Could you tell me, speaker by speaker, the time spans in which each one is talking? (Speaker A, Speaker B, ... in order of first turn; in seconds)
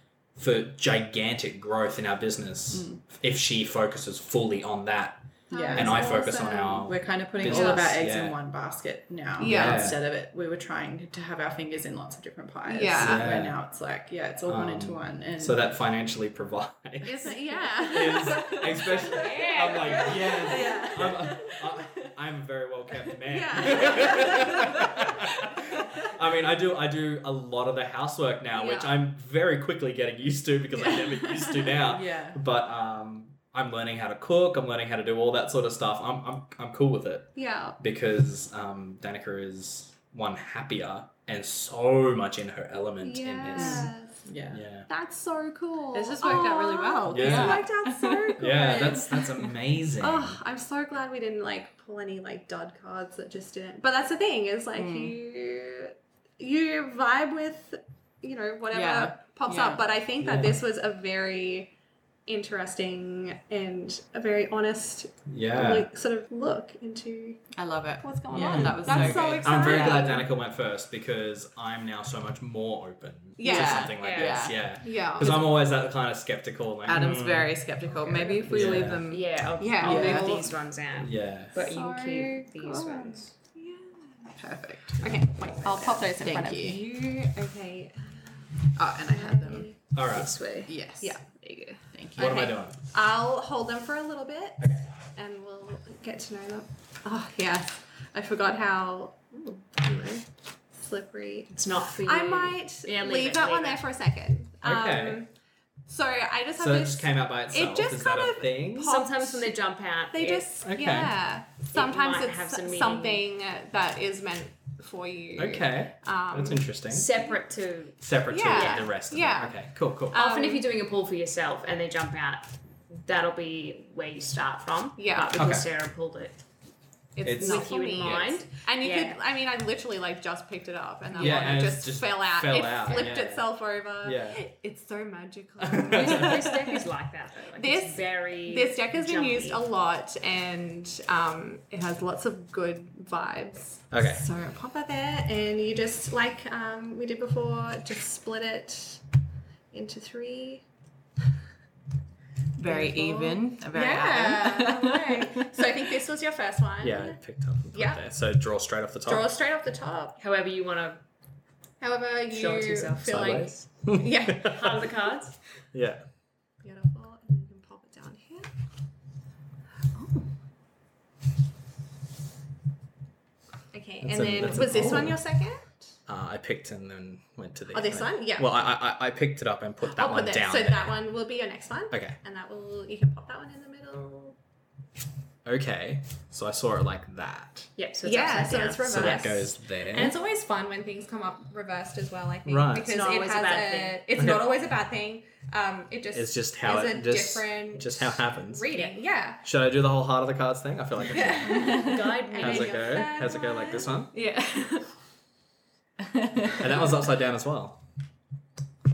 Speaker A: 0.4-8.4, 9.4-10.0, 13.0-13.5, 14.5-17.3, 17.9-43.9, 44.5-44.9, 47.1-47.6, 48.4-50.4, 60.2-60.6, 65.3-65.9, 68.3-77.6, 78.5-79.1, 81.0-81.5, 89.9-90.4, 92.2-92.8, 94.6-94.9, 104.6-105.2, 106.6-109.0, 110.6-111.1, 115.4-117.1, 118.0-120.2, 125.3-125.7, 127.2-128.3, 131.2-133.4, 134.0-134.4, 135.6-136.4, 143.9-144.2, 156.8-159.3, 163.0-164.8, 165.7-166.1, 174.0-175.2, 176.1-180.9, 181.9-182.2, 185.4-187.7, 188.9-190.1, 192.5-192.9, 194.2-194.5, 196.1-198.7, 199.4-201.8, 202.4-204.1, 206.6-207.8
Speaker B: 2.7-3.0, 5.5-15.6, 17.5-22.1, 23.1-26.1, 31.8-32.4, 43.5-44.6, 45.9-49.3, 54.8-55.1, 58.7-59.8, 67.6-70.2, 73.4-74.6, 76.9-79.3, 79.8-80.4, 84.3-86.8, 88.8-89.7, 90.7-91.2, 91.9-92.5, 131.2-131.6, 152.6-155.4, 201.5-202.0, 206.2-206.6
Speaker C: 5.5-6.9, 7.5-7.9, 9.4-9.9, 12.7-13.4, 17.0-18.5, 23.3-24.6, 28.5-29.0, 37.4-37.8, 43.0-44.3, 44.9-49.4, 50.0-61.7, 62.3-67.5, 68.0-70.3, 73.4-75.5, 77.9-78.7, 79.6-80.5, 81.5-84.3, 85.0-89.8, 91.0-91.3, 92.2-105.3, 105.9-109.6, 110.1-116.7, 118.3-120.6, 125.0-125.5, 127.2-136.5, 137.6-149.0, 149.7-150.6, 152.6-157.2, 157.7-158.0, 159.1-160.2, 161.8-164.6, 166.6-168.5, 170.0-170.2, 173.7-175.9, 177.7-178.5, 179.8-184.4, 188.0-199.4, 201.0-204.9
Speaker D: 19.1-20.9, 74.0-74.5, 79.1-83.3, 85.3-86.0, 90.1-91.8, 101.5-103.8, 108.8-110.5, 111.7-113.2, 116.9-118.9, 120.1-126.4, 127.3-129.2, 135.9-139.6, 160.2-161.0, 162.3-163.7, 164.2-165.4, 187.8-189.3, 192.9-194.0, 201.8-203.1